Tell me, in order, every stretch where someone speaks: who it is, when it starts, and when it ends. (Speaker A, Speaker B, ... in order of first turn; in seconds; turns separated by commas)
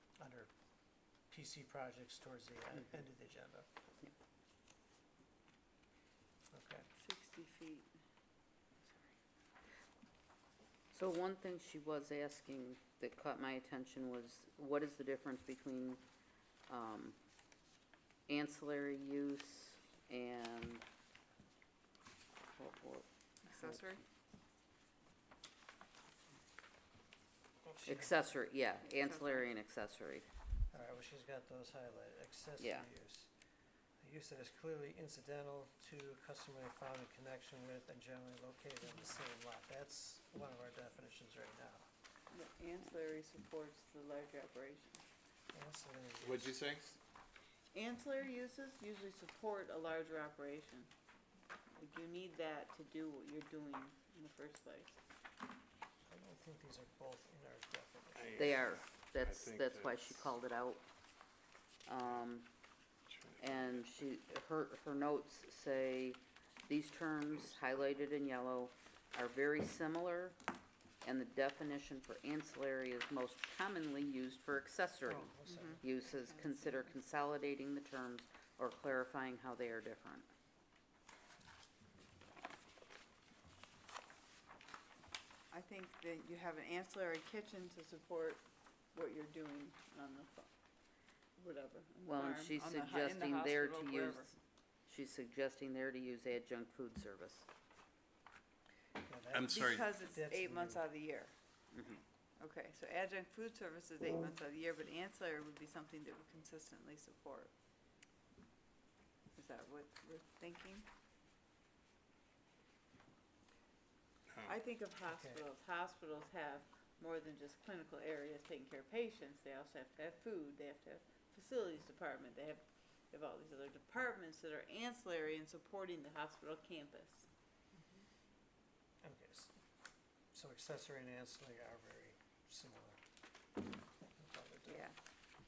Speaker A: 0.2-0.5, Speaker A: 1.3-3.7, Speaker A: 6.5-6.9, Speaker B: 7.0-7.9, Speaker B: 8.8-9.1, Speaker C: 10.9-16.0, Speaker C: 16.7-17.1, Speaker C: 18.3-20.8, Speaker C: 22.5-24.0, Speaker B: 23.4-24.0, Speaker A: 27.6-28.1, Speaker C: 27.8-30.2, Speaker B: 28.9-29.4, Speaker A: 30.7-33.3, Speaker C: 32.6-32.9, Speaker A: 34.0-41.9, Speaker B: 42.3-45.0, Speaker A: 45.5-46.6, Speaker D: 46.2-47.0, Speaker B: 47.7-50.9, Speaker B: 51.8-55.0, Speaker A: 56.1-58.7, Speaker D: 58.1-60.3, Speaker C: 58.4-60.8, Speaker C: 61.9-62.5, Speaker D: 63.1-63.6, Speaker C: 63.4-70.4, Speaker C: 71.0-80.3, Speaker A: 75.0-75.8, Speaker B: 75.5-76.9, Speaker B: 85.5-88.4, Speaker B: 88.9-90.5, Speaker B: 91.4-94.3, Speaker C: 92.0-94.3, Speaker C: 94.8-97.5, Speaker A: 99.0-100.9, Speaker D: 99.3-99.8, Speaker B: 99.5-101.3, Speaker C: 101.7-102.0, Speaker B: 102.4-107.5, Speaker B: 109.3-110.8, Speaker B: 114.4-127.3, Speaker A: 115.1-115.4, Speaker A: 129.0-129.6, Speaker A: 130.3-133.0, Speaker A: 134.1-134.9, Speaker B: 134.7-134.9